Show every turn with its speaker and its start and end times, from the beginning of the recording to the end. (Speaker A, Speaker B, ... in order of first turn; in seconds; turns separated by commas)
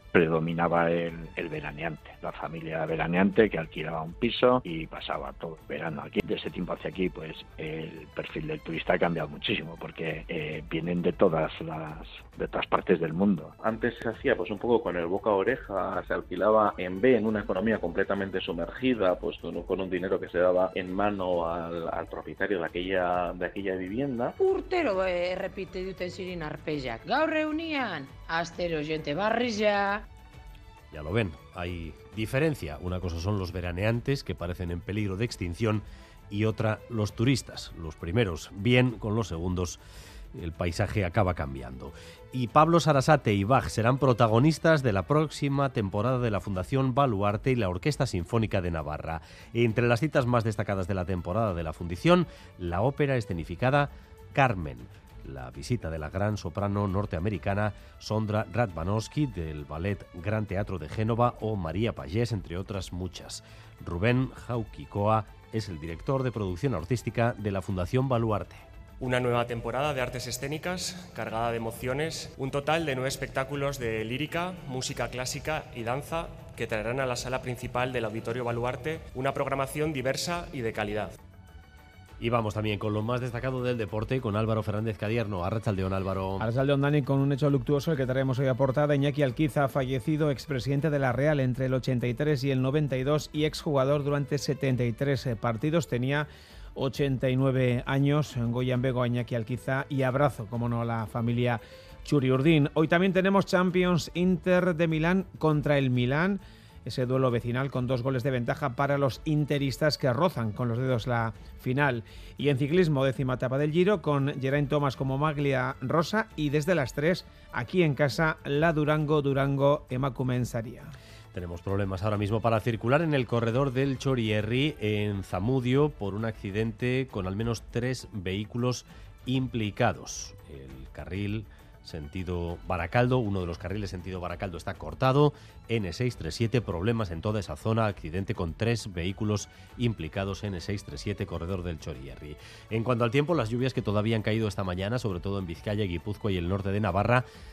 Speaker A: 0.1-13.5, Speaker B: 13.7-24.3, Speaker C: 24.4-30.0, Speaker D: 30.9-39.8, Speaker D: 40.3-68.7, Speaker E: 69.0-81.2, Speaker D: 82.2-86.5, Speaker F: 86.4-120.9, Speaker D: 121.3-147.2